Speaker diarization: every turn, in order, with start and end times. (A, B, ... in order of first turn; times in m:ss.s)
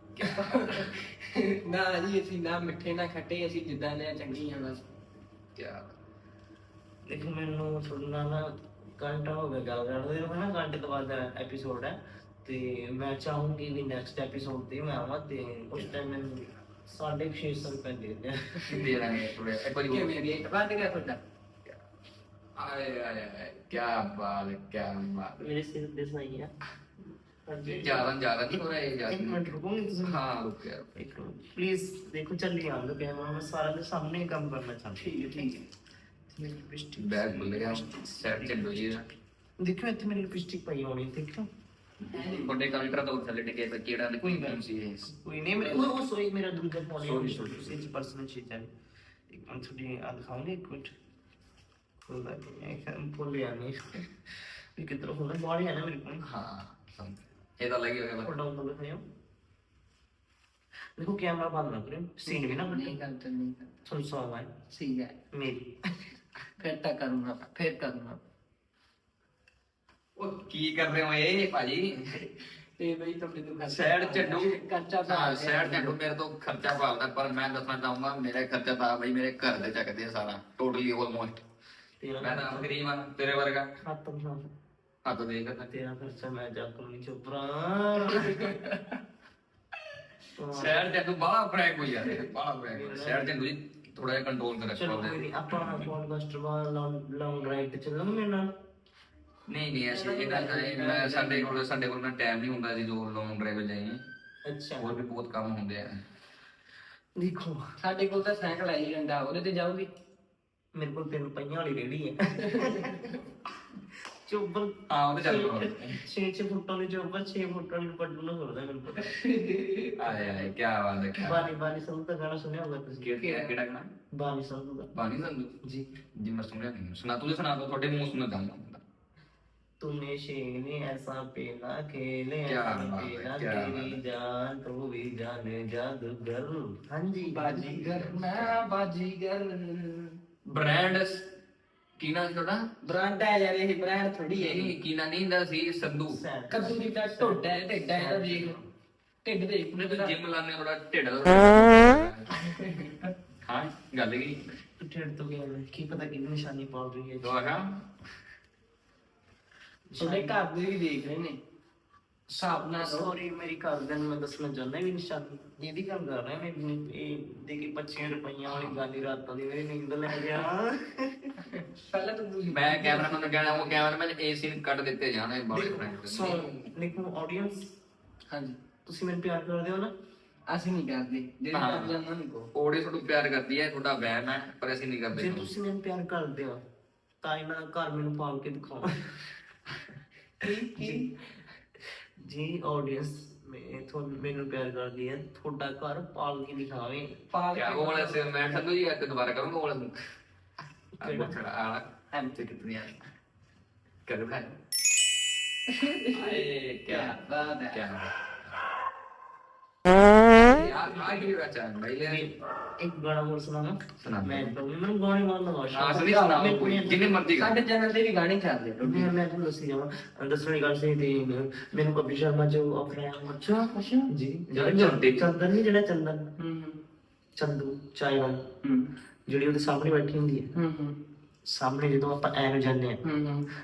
0:00.1-0:00.8 A
0:00.3-0:04.9 B
0:05.5-0:05.9 A
0:07.1-0:18.9 C
0:18.7-0:20.2 A
0:19.9-0:21.2 B
0:22.6-0:25.4 A
0:25.4-0:26.5 C
0:27.4-0:30.2 C
0:27.7-0:29.4 A
0:30.0-0:30.9 A
0:30.9-0:35.5 C
0:35.0-0:35.6 B
0:36.3-0:39.0 C
0:37.0-0:39.0 A
0:39.6-0:41.5 C
0:42.0-0:45.1 A
0:42.1-0:43.0 B
0:44.2-0:48.7 C
0:45.6-0:45.9 A
0:47.0-0:47.8 A
0:49.3-0:50.9 C
0:52.1-0:54.1 C
0:54.8-0:56.2 C
0:56.2-0:58.3 A
0:58.2-0:59.0 C
1:01.0-1:02.9 C
1:02.2-1:03.7 B
1:03.8-1:04.5 C
1:04.7-1:05.1 B
1:05.3-1:05.7 C
1:06.6-1:08.2 B
1:10.2-1:12.2 A
1:12.8-1:16.0 B
1:13.7-1:21.4 A
1:22.0-1:22.7 C
1:22.2-1:23.7 A
1:23.8-1:24.5 C
1:25.0-1:25.7 A
1:25.7-1:28.5 C
1:28.1-1:28.8 B
1:30.4-1:30.9 C
1:30.5-1:35.8 A
1:32.7-1:33.4 C
1:34.8-1:38.5 C
1:39.5-1:44.0 A
1:39.8-1:41.6 B
1:44.4-1:44.9 C
1:44.8-1:46.0 A
1:47.2-1:47.7 C
1:47.8-1:49.9 B
1:50.7-1:53.0 C
1:52.5-1:53.1 B
1:54.2-1:59.1 C
1:54.9-1:56.0 A
1:59.0-2:00.1 B
2:00.0-2:01.4 A
2:01.2-2:03.1 C
2:03.0-2:03.9 A
2:03.2-2:03.5 B
2:04.1-2:04.9 C
2:04.9-2:05.6 A
2:05.6-2:05.9 C
2:06.2-2:08.8 A
2:09.8-2:17.8 C
2:12.4-2:14.0 A
2:17.2-2:20.2 B
2:17.8-2:18.6 A
2:20.5-2:21.3 A
2:22.0-2:22.7 A
2:22.8-2:24.7 B
2:24.3-2:26.2 A
2:26.1-2:27.4 C
2:26.5-2:28.6 B
2:27.9-2:28.6 C
2:29.2-2:30.1 B
2:29.7-2:32.3 A
2:32.3-2:33.1 B
2:33.4-2:34.4 A
2:34.8-2:37.4 C
2:37.2-2:37.8 A
2:39.9-2:40.4 C
2:40.0-2:41.4 B
2:42.3-2:51.3 C
2:42.4-2:43.1 B
2:51.5-2:53.9 B
2:52.5-2:56.6 A
2:55.5-2:57.7 C
2:58.3-2:58.6 B
2:58.8-2:59.9 C
3:00.5-3:02.5 B
3:01.5-3:01.9 A
3:02.5-3:05.5 A
3:05.1-3:06.6 C
3:07.2-3:09.0 C
3:10.4-3:11.1 B
3:10.8-3:11.1 C
3:12.2-3:17.1 C
3:17.3-3:18.6 B
3:17.5-3:19.9 A
3:21.0-3:21.4 C
3:21.0-3:23.0 A
3:22.1-3:22.4 B
3:24.0-3:24.5 A
3:25.7-3:27.8 B
3:26.1-3:28.1 A
3:30.5-3:30.8 B
3:30.5-3:32.3 A
3:32.0-3:37.2 C
3:34.0-3:34.5 A
3:35.7-3:37.5 A
3:36.0-3:36.6 B
3:37.4-3:39.1 B
3:38.8-3:46.2 C
3:43.7-3:44.1 B
3:44.5-3:45.3 A
3:46.4-3:46.8 B
3:47.4-3:48.4 C
3:48.6-3:48.9 B
3:49.3-3:50.5 C
3:50.5-3:51.0 B
3:51.5-3:53.0 C
3:53.0-3:53.5 B